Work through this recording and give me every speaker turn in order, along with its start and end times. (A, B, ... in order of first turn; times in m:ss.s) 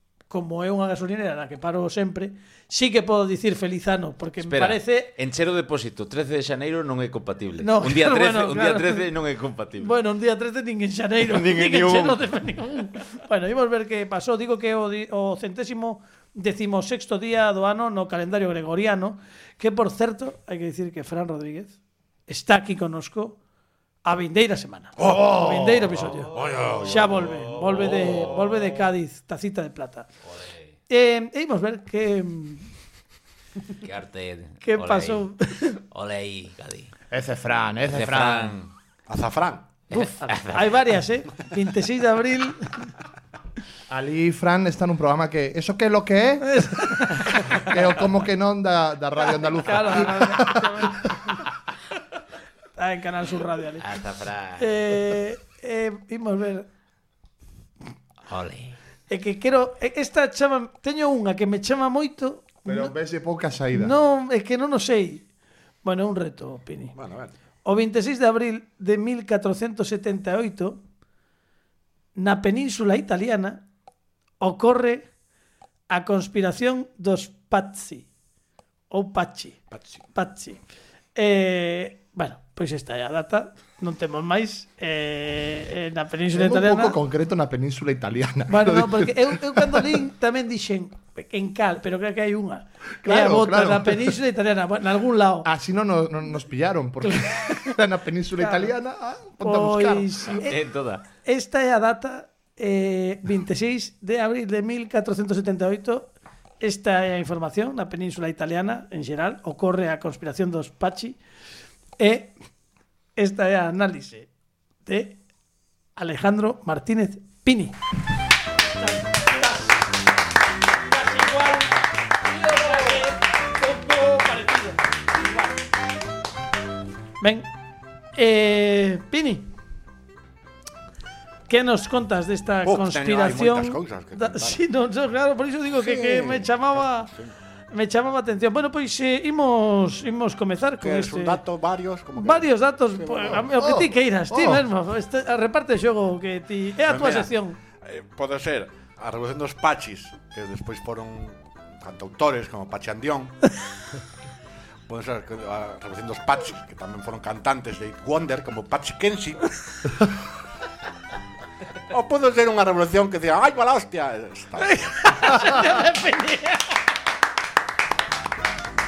0:00.3-0:05.1 A
0:04.4-0:09.9 B
0:07.6-0:09.1 A
0:09.8-0:21.8 A
0:11.2-0:12.2 B
0:22.3-0:23.4 A
0:24.0-0:30.1 A
0:25.0-0:27.2 C
0:26.3-0:28.8 B
0:30.3-0:30.6 B
0:30.9-0:32.7 A
0:33.8-0:35.2 B
0:34.6-0:35.8 A
0:35.9-0:36.9 B
0:37.1-0:38.6 D
0:37.9-0:38.7 B
0:39.1-0:39.7 C
0:39.9-0:42.9 A
0:39.9-0:40.8 B
0:43.9-0:51.1 D
0:46.4-0:47.7 A
0:49.3-0:51.4 A
0:52.8-0:53.9 A
0:53.8-0:54.7 B
0:54.6-0:56.7 A
0:58.3-0:58.8 B
0:59.1-1:02.9 A
1:02.6-1:04.0 D
1:03.7-1:05.2 A
1:05.8-1:06.9 A
1:07.0-1:07.3 C
1:07.6-1:10.8 A
1:12.2-1:13.6 A
1:14.4-1:15.1 A
1:15.9-1:18.1 A
1:18.9-1:19.6 A
1:19.7-1:20.0 C
1:20.1-1:20.6 A
1:21.1-1:27.0 A
1:26.3-1:30.0 D
1:28.5-1:35.5 A
1:33.0-1:34.2 D
1:35.4-1:40.2 D
1:37.0-1:37.8 A
1:38.4-1:38.7 A
1:39.4-1:40.6 A
1:40.4-1:41.0 B
1:41.2-1:51.2 A
1:52.0-1:52.3 A
1:53.2-1:54.3 A
1:54.8-1:55.2 A
1:56.0-1:57.8 A
1:58.8-1:59.8 A
2:00.9-2:05.5 A
2:07.2-2:07.5 A
2:08.1-2:09.5 A
2:11.5-2:17.1 A
2:12.6-2:14.6 C
2:15.8-2:17.3 C
2:17.7-2:21.4 A
2:20.8-2:23.5 C
2:22.2-2:27.6 A
2:23.6-2:24.6 D
2:26.8-2:33.4 C
2:34.9-2:39.5 C
2:41.9-2:45.5 C
2:44.6-2:46.7 A